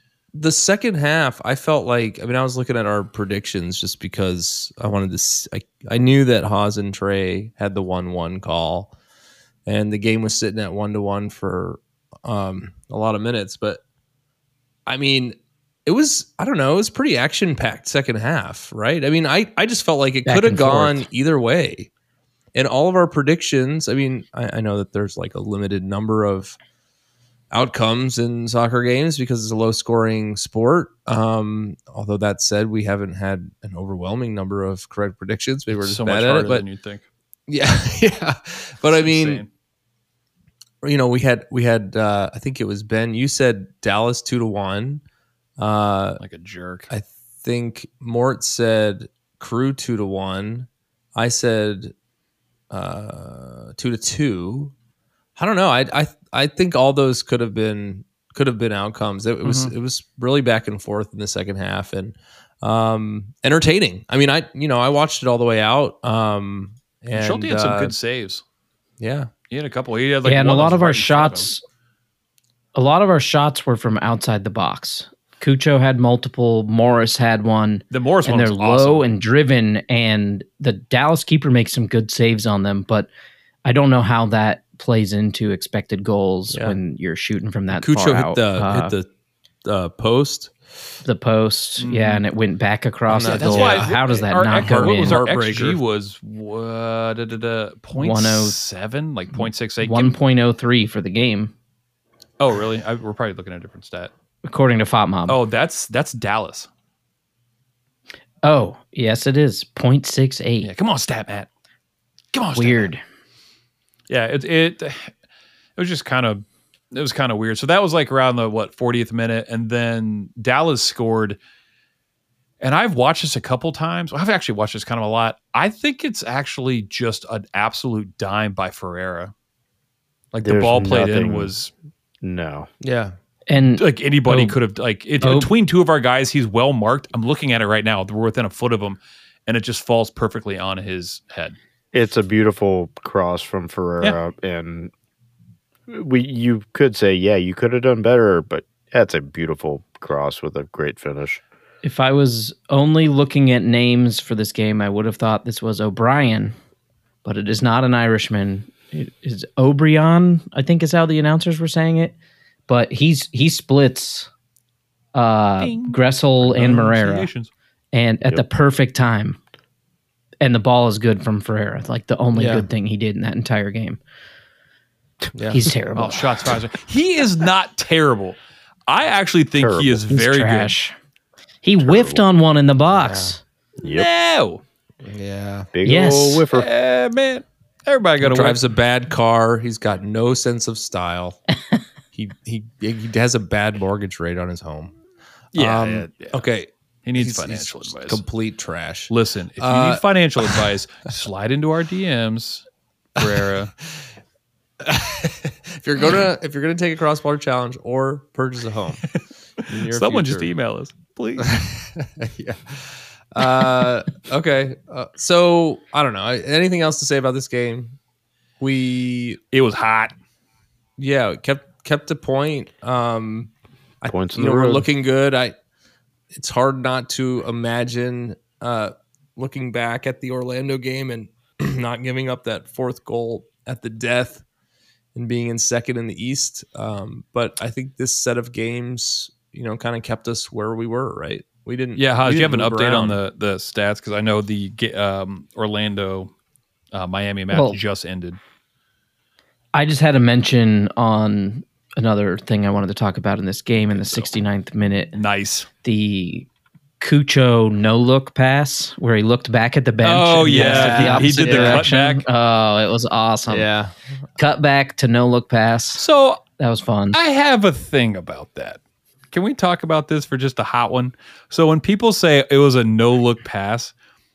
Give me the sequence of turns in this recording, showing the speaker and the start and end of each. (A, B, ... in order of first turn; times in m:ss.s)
0:00.3-0:08.9 A
0:09.6-0:13.8 A
0:14.9-0:21.9 A
0:20.2-0:21.0 B
0:22.5-0:26.6 A
0:27.5-0:36.6 A
0:35.7-0:37.0 C
0:37.5-0:39.4 A
0:38.8-0:39.5 C
0:40.8-0:45.0 A
0:45.6-0:46.2 A
0:46.2-0:46.9 C
0:46.9-0:51.9 A
0:52.7-0:54.7 A
0:55.4-1:07.9 A
0:59.4-0:59.7 C
1:07.1-1:08.4 C
1:09.0-1:09.3 A
1:09.5-1:11.5 C
1:10.2-1:11.6 B
1:12.7-1:23.1 B
1:17.9-1:19.0 C
1:23.6-1:28.9 B
1:26.5-1:26.8 A
1:27.8-1:29.1 A
1:29.6-1:30.5 A
1:31.0-1:35.2 B
1:31.8-1:32.2 C
1:33.1-1:35.8 A
1:33.2-1:40.1 C
1:37.9-1:38.6 B
1:39.3-1:41.5 B
1:42.4-1:44.1 C
1:44.4-1:45.4 B
1:45.3-1:46.7 C
1:48.4-1:50.7 B
1:50.6-1:51.5 C
1:52.3-1:52.9 C
1:52.5-1:53.0 B
1:54.1-1:55.1 C
1:55.8-2:01.4 C
2:02.6-2:09.3 C
2:10.3-2:11.7 C
2:10.4-2:11.5 D
2:12.2-2:12.7 D
2:12.8-2:13.2 A
2:13.5-2:14.6 B
2:13.8-2:21.6 C
2:15.2-2:15.5 B
2:21.9-2:24.9 D
2:25.9-2:31.4 D
2:31.8-2:36.5 B
2:37.2-2:42.1 B
2:42.7-2:44.3 B
2:45.1-2:47.3 B
2:45.6-2:47.5 C
2:47.9-2:49.4 B
2:50.4-2:54.0 B
2:52.3-2:52.7 A
2:55.3-2:55.6 A
2:55.5-2:56.2 B
2:55.9-3:00.7 C
2:59.6-3:00.0 D
3:00.1-3:01.0 B
3:01.6-3:03.4 B
3:01.8-3:02.2 D
3:03.0-3:03.4 A
3:03.8-3:04.1 D
3:03.8-3:04.6 C
3:05.0-3:05.7 A
3:05.7-3:06.7 D
3:05.8-3:06.4 B
3:06.5-3:08.6 C
3:08.2-3:11.4 A
3:12.1-3:15.0 A
3:15.5-3:16.4 C
3:15.5-3:20.7 A
3:17.0-3:18.2 C
3:19.1-3:22.6 C
3:23.2-3:23.7 C
3:24.8-3:29.1 A
3:29.7-3:30.5 A
3:29.8-3:31.5 C
3:31.4-3:38.0 A
3:38.6-3:39.4 A
3:39.5-3:40.1 C
3:41.0-3:45.5 A
3:44.0-3:44.9 D
3:46.3-3:54.4 A
3:55.1-4:03.2 A
4:02.0-4:06.3 C
4:06.9-4:08.4 C
4:07.5-4:07.8 B
4:09.7-4:15.1 B
4:15.1-4:15.7 C
4:15.8-4:16.5 B
4:17.0-4:23.7 B
4:20.0-4:21.9 A
4:20.1-4:22.2 C
4:23.5-4:23.9 A
4:24.4-4:26.0 B
4:26.0-4:26.4 C
4:26.6-4:27.2 B
4:27.1-4:28.8 C
4:29.3-4:33.9 C